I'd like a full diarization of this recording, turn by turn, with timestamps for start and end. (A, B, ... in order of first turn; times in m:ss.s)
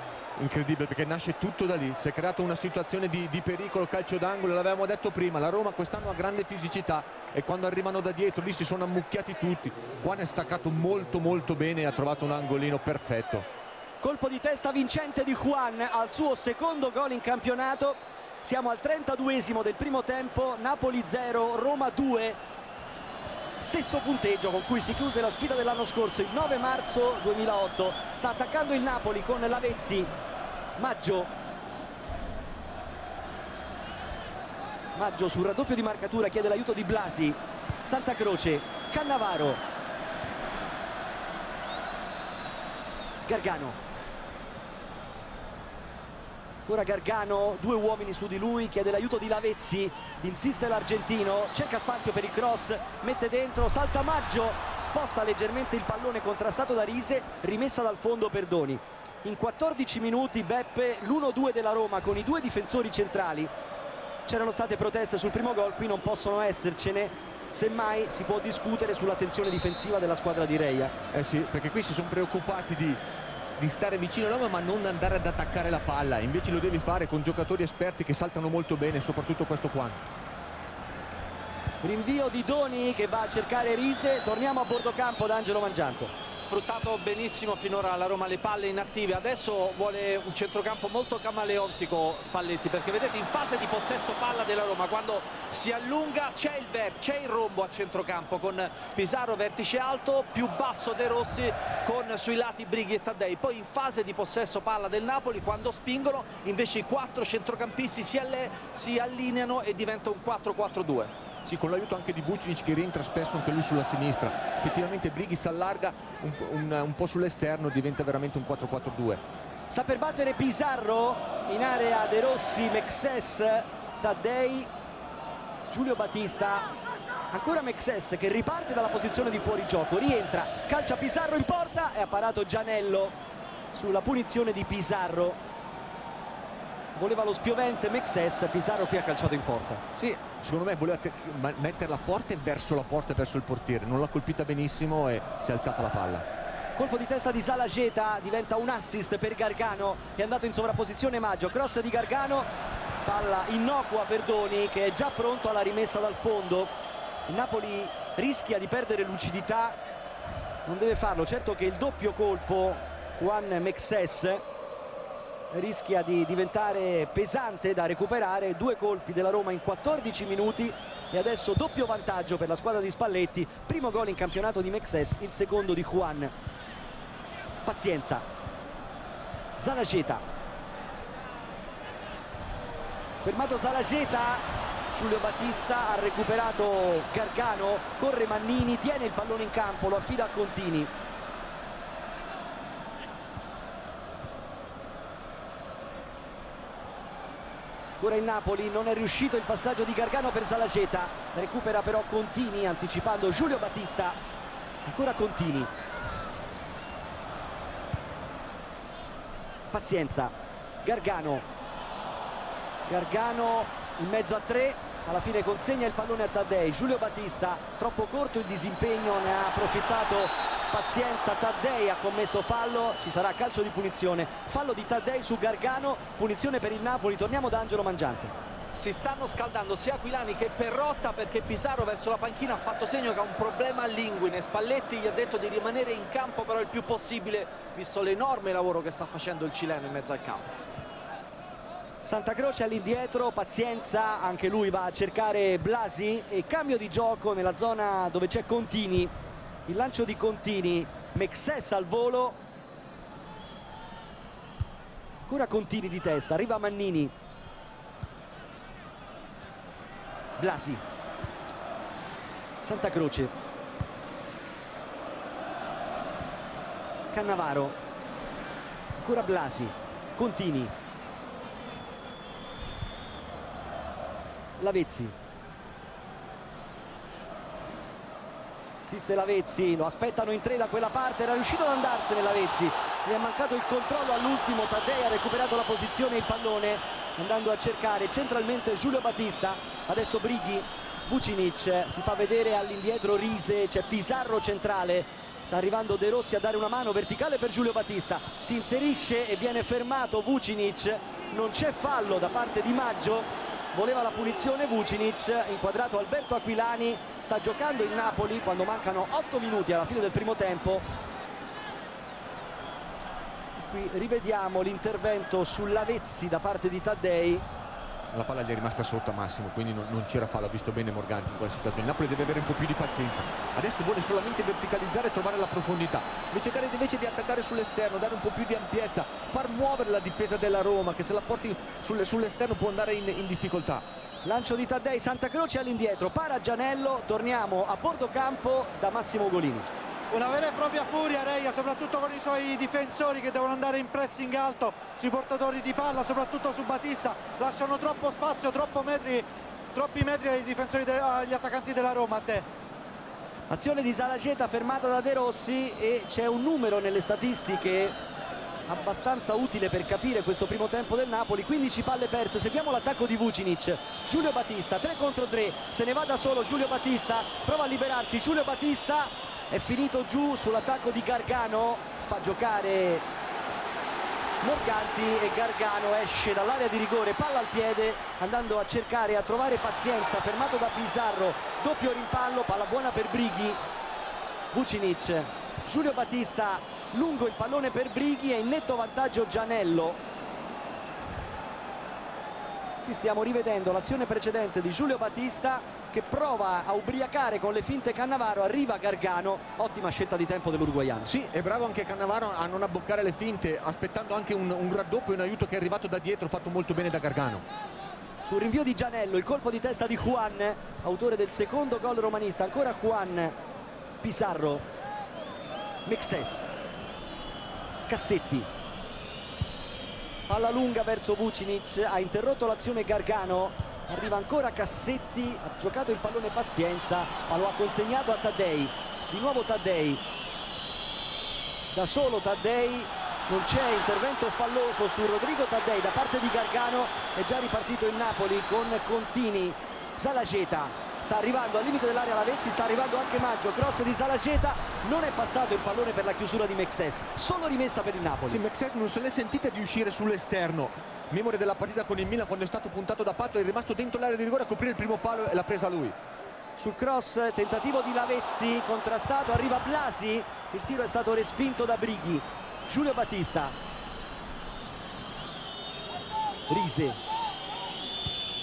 0:00.4-0:13.4 A
0:14.0-0:22.4 B
0:23.6-0:30.1 B
0:30.8-0:31.3 B
0:35.0-0:39.6 B
0:43.3-0:43.8 B
0:46.7-1:03.5 B
1:04.3-1:10.9 B
1:11.1-1:13.0 A
1:13.6-1:20.0 A
1:21.8-1:26.1 B
1:26.4-1:51.1 C
1:51.4-1:59.2 A
1:59.7-2:04.7 B
2:05.7-2:06.7 B
2:07.3-2:13.2 B
2:13.7-2:15.4 B
2:17.0-2:19.8 B
2:20.0-2:26.2 A
2:26.8-2:32.5 B
2:33.0-2:36.7 B
2:37.3-2:39.8 B
2:40.7-2:44.4 B
2:45.5-2:56.3 B
2:57.6-2:58.2 B
2:59.6-3:00.2 B
3:03.2-3:10.9 B
3:18.0-3:24.2 B
3:24.8-3:25.7 B
3:29.7-3:31.4 B
3:32.9-3:48.3 B
3:48.7-4:00.5 C
4:02.0-4:09.1 B
4:09.7-4:12.4 B
4:15.3-4:17.1 B
4:20.4-4:20.8 B
4:22.6-4:23.3 B
4:27.1-4:27.8 B
4:29.0-4:30.7 B
4:34.6-4:35.2 B
4:38.8-5:10.8 B
5:13.6-5:17.4 B
5:18.1-5:33.8 A
5:34.2-5:39.7 B
5:40.1-5:52.5 D
5:53.5-5:58.0 B
5:58.7-6:13.0 B
6:14.4-6:23.6 B
6:24.5-6:30.0 B
6:32.8-6:41.1 B
6:41.1-6:47.4 A
6:48.2-6:53.4 B
6:54.0-6:54.7 B
6:55.9-6:56.5 B
6:57.9-6:58.5 B
7:00.3-7:10.0 B
7:11.7-7:28.4 B
7:28.3-7:36.0 A
7:36.6-7:43.6 B
7:46.5-7:47.0 B